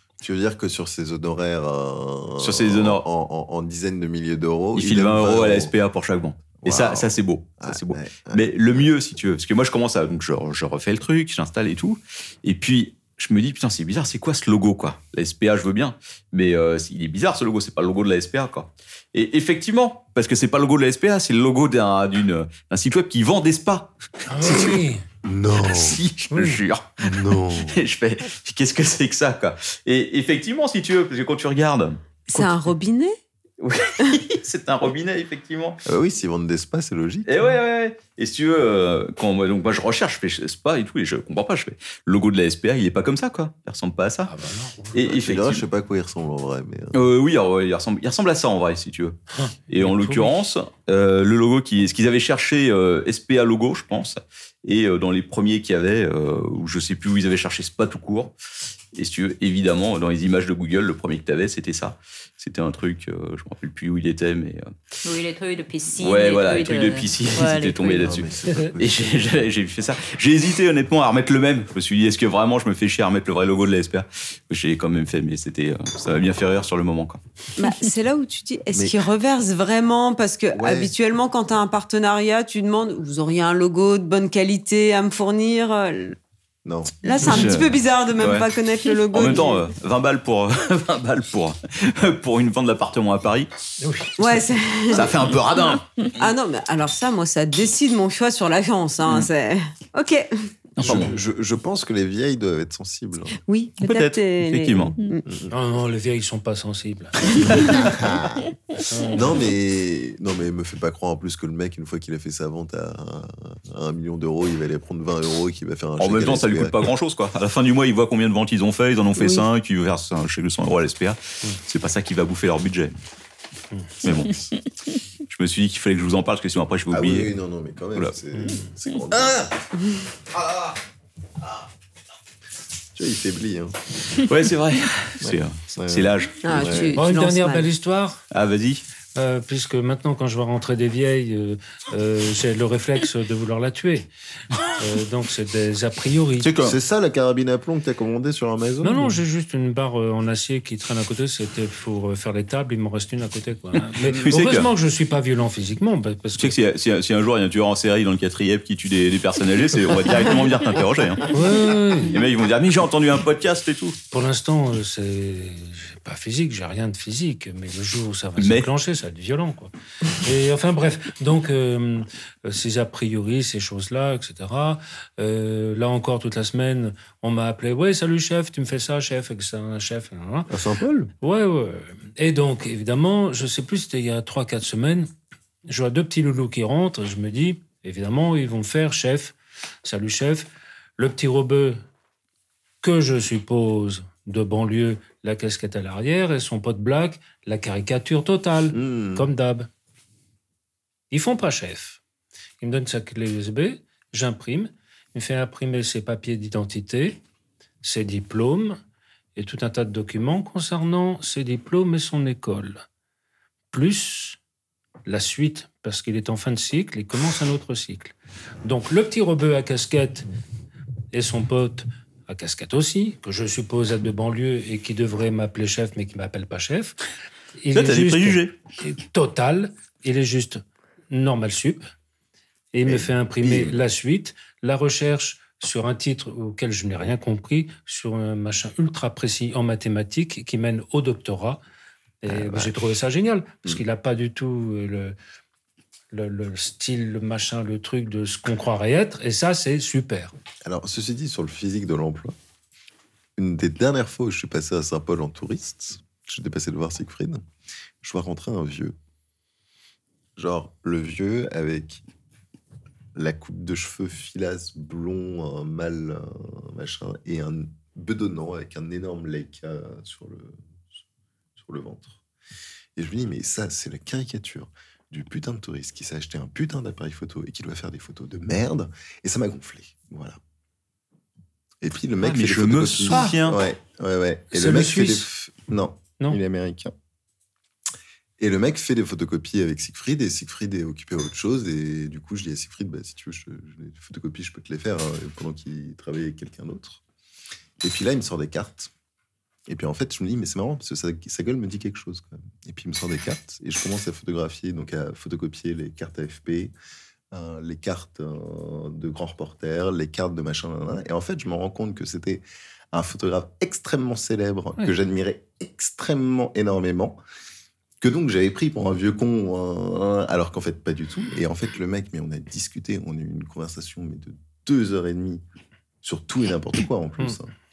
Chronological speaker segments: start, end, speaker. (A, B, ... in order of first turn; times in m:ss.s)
0:00.2-0:05.7 A
0:02.4-0:03.0 B
0:04.8-0:24.8 B
0:06.6-0:08.9 A
0:24.3-0:25.0 C
0:25.2-0:26.0 A
0:25.6-0:32.6 B
0:26.3-0:26.6 C
0:27.0-0:27.8 A
0:32.2-0:33.2 D
0:33.6-0:35.8 B
0:35.8-0:37.4 A
0:37.2-0:44.3 B
0:44.2-0:45.0 C
0:44.9-0:45.6 B
0:45.0-0:47.0 A
0:46.9-0:49.2 B
0:49.3-0:50.3 C
0:49.7-0:58.3 B
0:58.9-1:04.7 B
1:05.0-1:08.2 E
1:06.0-1:17.2 B
1:07.9-1:09.5 A
1:17.6-1:26.2 D
1:20.5-1:20.9 A
1:26.6-1:27.4 A
1:27.0-1:29.7 D
1:27.2-1:28.5 B
1:29.1-1:33.5 B
1:33.8-1:34.2 C
1:34.2-1:35.2 D
1:34.9-1:36.0 B
1:36.2-1:40.5 D
1:40.8-1:41.1 B
1:40.8-1:43.4 A
1:40.8-1:41.2 C
1:43.5-1:45.2 D
1:43.8-1:45.0 B
1:45.2-1:45.5 A
1:45.5-1:47.7 C
1:47.7-1:47.9 B
1:47.7-1:48.5 A
1:48.9-1:49.3 C
1:49.1-1:56.9 A
1:56.0-2:03.0 B
2:04.0-2:04.4 B
2:04.0-2:04.4 A
2:05.3-2:07.3 B
2:06.9-2:09.5 A
2:08.3-2:08.7 C
2:12.9-2:13.8 A
2:14.2-2:16.8 B
2:15.2-2:17.0 A
2:16.4-2:17.7 D
2:17.0-2:18.2 C
2:18.3-2:18.8 B
2:19.2-2:24.1 C
2:24.8-2:26.5 C
2:26.4-2:26.8 B
2:26.6-2:29.2 A
2:28.8-2:36.6 C
2:34.0-2:34.7 B
2:36.4-2:41.4 B
2:41.3-2:42.2 C
2:42.1-2:44.0 B
2:44.1-3:00.5 C
2:48.4-2:48.7 B
3:00.5-3:01.1 A
3:01.2-3:05.1 C
3:05.7-3:11.8 C
3:12.8-3:19.7 C
3:18.7-3:19.3 A
3:21.1-3:22.0 C
3:22.6-3:27.2 C
3:27.8-3:28.8 C
3:29.4-3:32.8 C
3:33.7-3:34.4 C
3:35.0-3:40.3 C
3:41.1-3:47.0 C
3:47.6-3:51.8 C
3:47.7-3:48.5 B
3:52.7-4:01.6 C
3:52.8-3:53.8 A
4:02.2-4:05.1 C
4:02.3-4:02.7 A
4:06.1-4:10.3 C
4:10.6-4:12.3 A
4:13.4-4:17.4 A
4:18.0-4:19.0 A
4:20.4-4:22.0 A
4:23.1-4:30.6 A
4:31.6-4:32.2 A
4:33.0-4:40.4 A
4:41.8-4:46.9 A
4:42.2-4:43.6 B
4:43.1-4:43.4 C
4:44.5-4:45.3 C
4:48.4-4:57.0 A
4:57.8-4:58.9 A
4:59.7-5:06.7 A
5:07.3-5:17.2 A
5:18.0-5:25.4 A
5:26.0-5:27.5 A